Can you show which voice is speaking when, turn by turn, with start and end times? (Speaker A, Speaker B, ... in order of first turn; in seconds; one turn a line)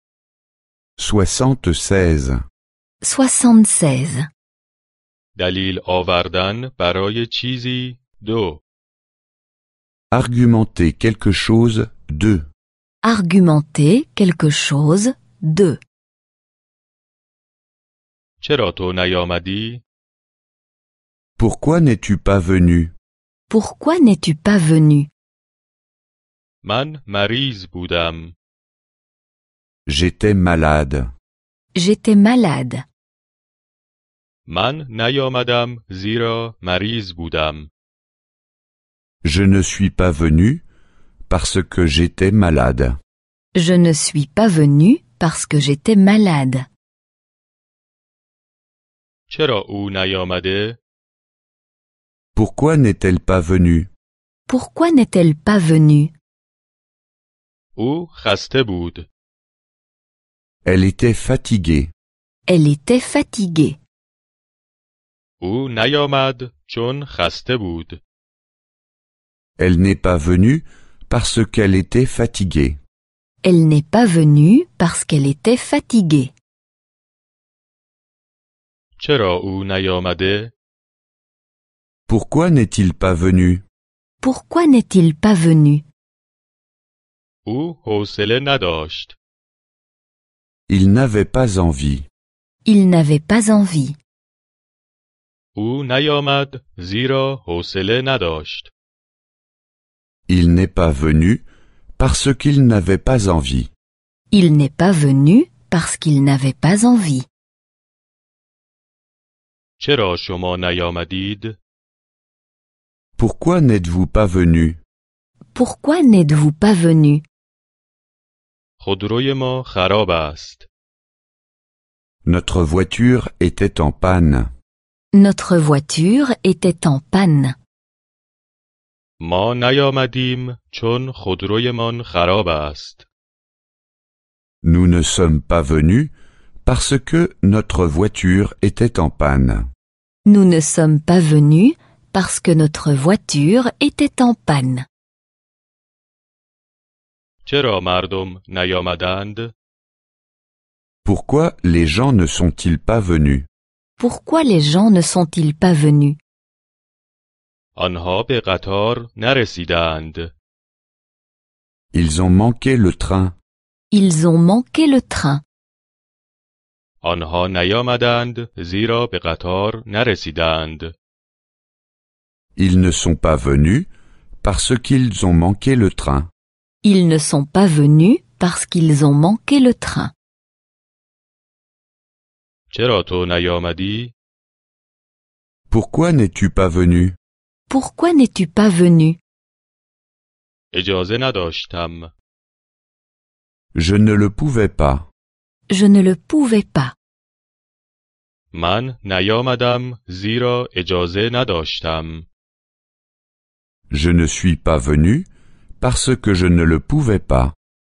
Speaker A: 1.0-2.4
Speaker B: 3.0-4.3
Speaker C: 5.4-8.6
Speaker A: 10.1-12.4
Speaker B: 13.0-15.8
Speaker C: 18.4-19.8
Speaker A: 21.4-22.9
Speaker B: 23.5-25.1
Speaker C: 26.6-28.4
Speaker A: 29.9-31.1
Speaker B: 31.8-32.9
Speaker C: 34.5-37.7
Speaker A: 39.2-40.6
Speaker A: 41.3-43.0
Speaker B: 43.5-46.7
Speaker C: 49.3-50.8
Speaker A: 52.4-53.9
Speaker B: 54.5-56.1
Speaker C: 57.8-59.1
Speaker A: 60.6-61.9
Speaker B: 62.5-63.8
Speaker C: 65.4-68.0
Speaker A: 69.6-72.8
Speaker B: 73.4-76.3
Speaker C: 79.0-80.5
Speaker A: 82.1-83.6
Speaker B: 84.2-85.9
Speaker C: 87.5-89.2
Speaker A: 90.7-92.1
Speaker B: 92.7-94.0
Speaker C: 95.6-98.7
Speaker A: 100.3-101.5
Speaker A: 102.0-103.7
Speaker B: 104.3-107.3
Speaker C: 109.8-111.6
Speaker A: 113.2-114.8
Speaker B: 115.5-117.2
Speaker C: 118.8-120.7
Speaker A: 122.2-124.5
Speaker B: 125.1-127.6
Speaker C: 129.2-133.1
Speaker A: 134.6-136.1
Speaker A: 136.7-139.7
Speaker B: 140.2-144.9
Speaker C: 147.5-149.5
Speaker A: 151.1-153.5
Speaker B: 154.0-156.2
Speaker C: 157.8-160.3
Speaker A: 161.9-163.3
Speaker B: 163.9-165.4
Speaker C: 167.0-170.9
Speaker A: 172.6-173.9
Speaker A: 174.4-176.3
Speaker B: 176.8-180.1
Speaker C: 182.7-184.1
Speaker A: 185.7-187.2
Speaker B: 187.7-189.2
Speaker C: 190.7-192.1
Speaker A: 193.8-195.1
Speaker B: 195.7-196.9
Speaker C: 198.5-202.3
Speaker A: 203.9-205.3
Speaker A: 205.8-207.6